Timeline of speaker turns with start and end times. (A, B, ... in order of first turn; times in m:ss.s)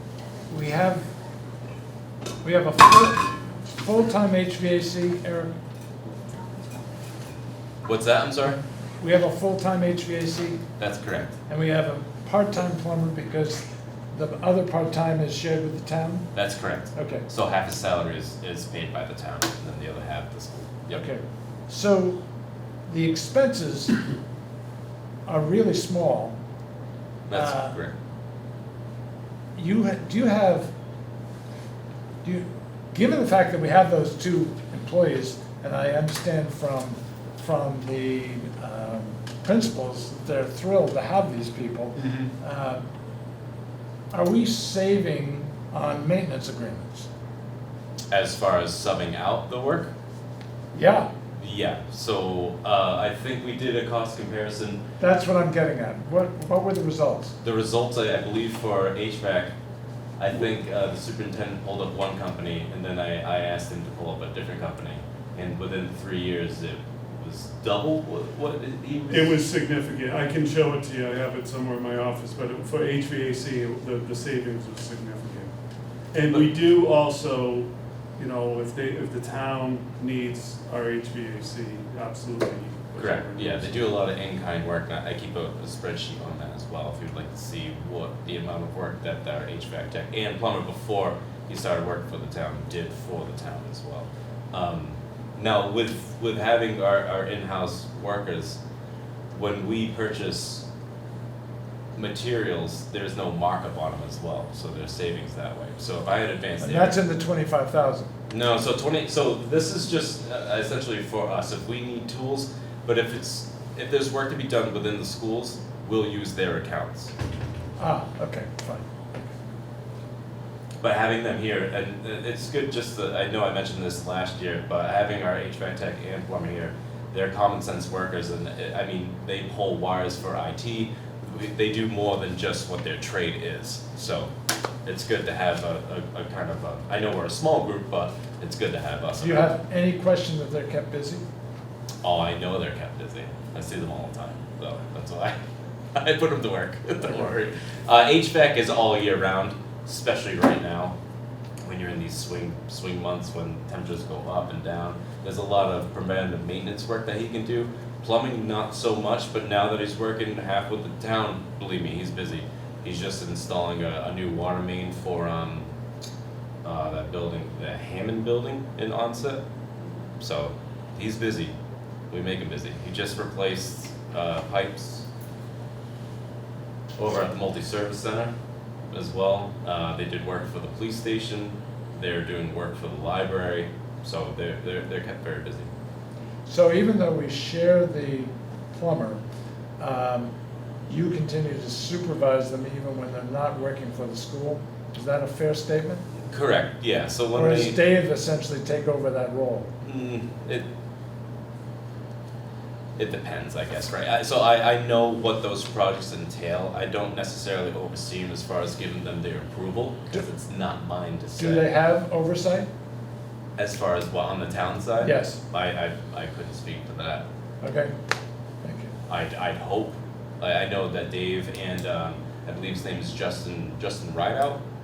0:00.5-0:01.0 A
0:02.4-0:05.5 A
0:07.8-0:08.6 B
0:09.0-0:10.6 A
0:10.8-0:11.3 B
0:11.5-0:16.3 A
0:16.3-0:21.0 B
0:16.9-0:17.2 A
0:20.9-0:22.2 A
0:22.9-0:24.0 A
0:25.2-0:26.4 A
0:27.3-0:27.9 B
0:27.3-0:27.8 A
0:29.6-0:30.7 A
0:32.2-0:42.8 A
0:42.0-0:42.3 C
0:44.1-0:47.1 A
0:48.1-0:49.9 B
0:50.7-0:51.1 A
0:51.4-0:54.8 B
0:55.0-0:57.3 A
0:57.4-0:59.5 B
1:00.2-1:09.3 B
1:09.1-1:15.5 C
1:16.1-1:23.8 C
1:23.0-1:38.6 B
1:39.3-1:40.6 B
1:42.0-1:47.0 B
1:46.6-1:48.1 A
1:48.3-1:57.1 B
1:57.8-1:59.0 A
2:00.8-2:14.3 B
2:14.8-2:19.5 B
2:19.2-2:21.2 A
2:22.0-2:25.4 B
2:25.9-2:30.9 B
2:31.6-2:45.7 B
2:46.6-2:49.4 B
2:50.2-2:51.5 B
2:52.1-2:55.0 B
2:57.0-2:58.3 B
2:58.9-3:05.7 B
3:06.4-3:09.2 A
3:09.8-3:10.3 A
3:10.9-3:16.0 A
3:16.3-3:17.8 B
3:17.3-3:19.7 A
3:19.8-3:20.6 B
3:23.0-3:31.6 B
3:31.4-3:32.7 A
3:33.6-3:37.2 B
3:35.0-3:35.4 A
3:37.6-3:37.9 A
3:38.6-3:38.9 A
3:39.1-3:44.6 B